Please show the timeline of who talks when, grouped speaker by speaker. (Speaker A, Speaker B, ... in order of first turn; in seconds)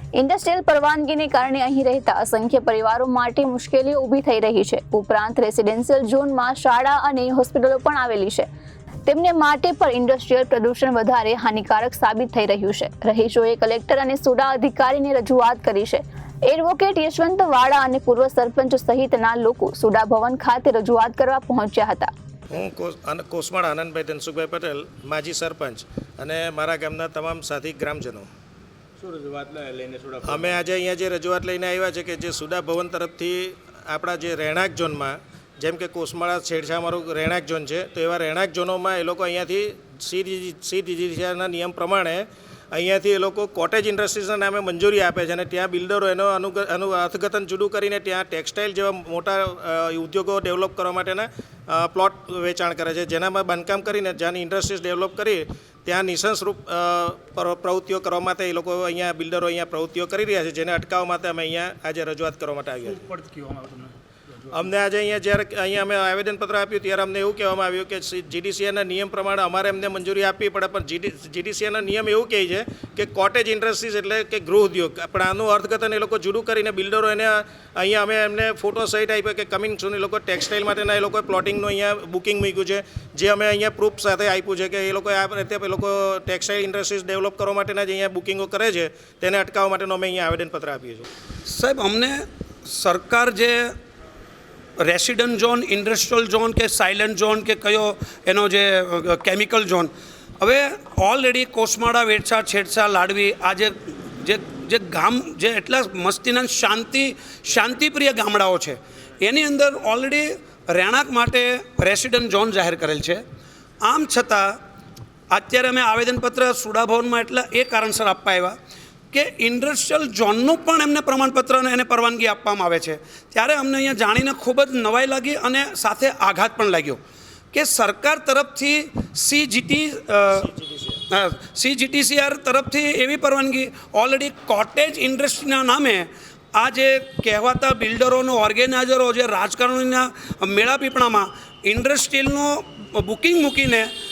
Speaker A: 0.1-8.5, 9.1-22.1
Speaker B: 22.5-28.3, 30.2-63.1, 64.5-91.1, 130.3-131.0
Speaker C: 29.0-30.6, 63.1-63.9
Speaker D: 91.5-93.8, 94.8-113.2, 113.8-114.6, 115.3-118.5, 119.1-127.0, 127.5-130.4, 131.1-143.9